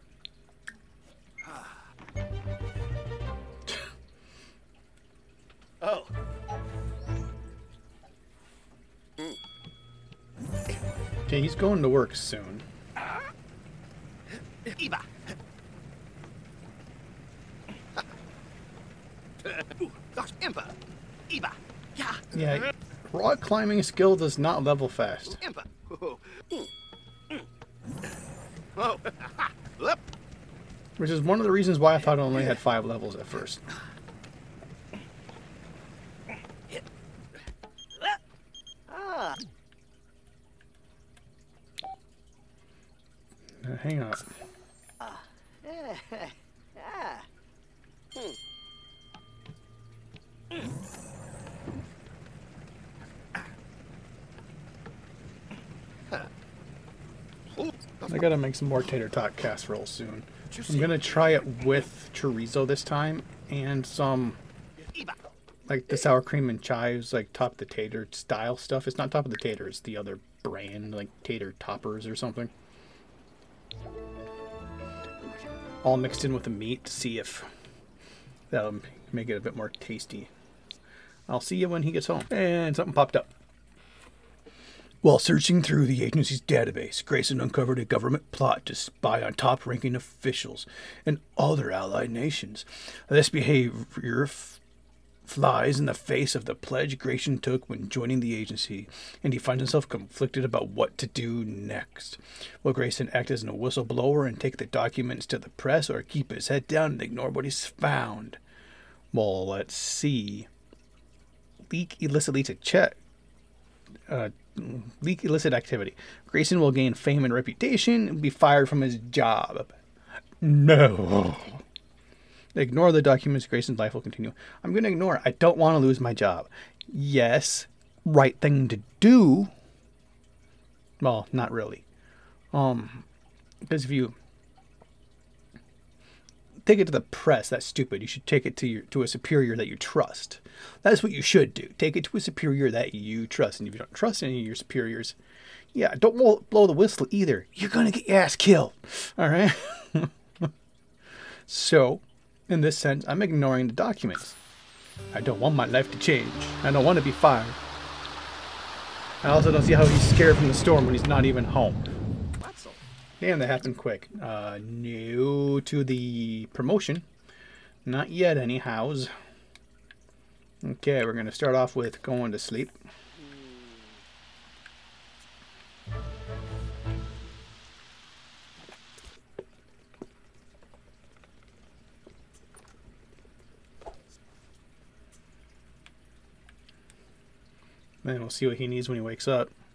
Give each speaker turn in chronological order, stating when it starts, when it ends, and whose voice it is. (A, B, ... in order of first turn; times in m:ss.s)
0:05.8-0:06.1 A
0:11.3-0:12.6 B
0:14.7-0:15.0 A
0:19.6-0:20.7 A
0:21.3-0:22.2 A
0:22.3-0:25.4 B
0:25.4-0:26.4 A
0:31.0-0:33.7 B
0:38.0-0:38.2 A
0:38.9-0:39.4 A
0:43.6-0:44.3 B
0:45.0-0:47.3 A
0:58.1-1:04.4 B
1:05.7-1:12.5 B
1:15.8-1:17.5 B
1:18.5-1:20.3 B
1:21.3-1:23.3 B
1:25.0-1:34.6 B
1:35.2-1:48.4 B
1:49.1-1:50.5 B
1:51.7-1:53.0 B
1:54.1-1:59.8 B
2:00.4-2:01.6 B
2:02.6-2:09.5 B
2:11.0-2:11.8 B
2:12.5-2:13.1 B
2:13.7-2:14.2 B
2:16.7-2:25.2 B
2:25.8-2:30.5 B
2:31.5-2:34.4 B
2:35.1-2:37.6 B
2:39.2-2:41.9 B
2:42.4-2:42.8 A
2:43.2-2:47.1 B
2:47.8-2:49.1 B
2:50.6-2:52.8 B
2:53.2-2:53.8 A
3:08.0-3:09.5 B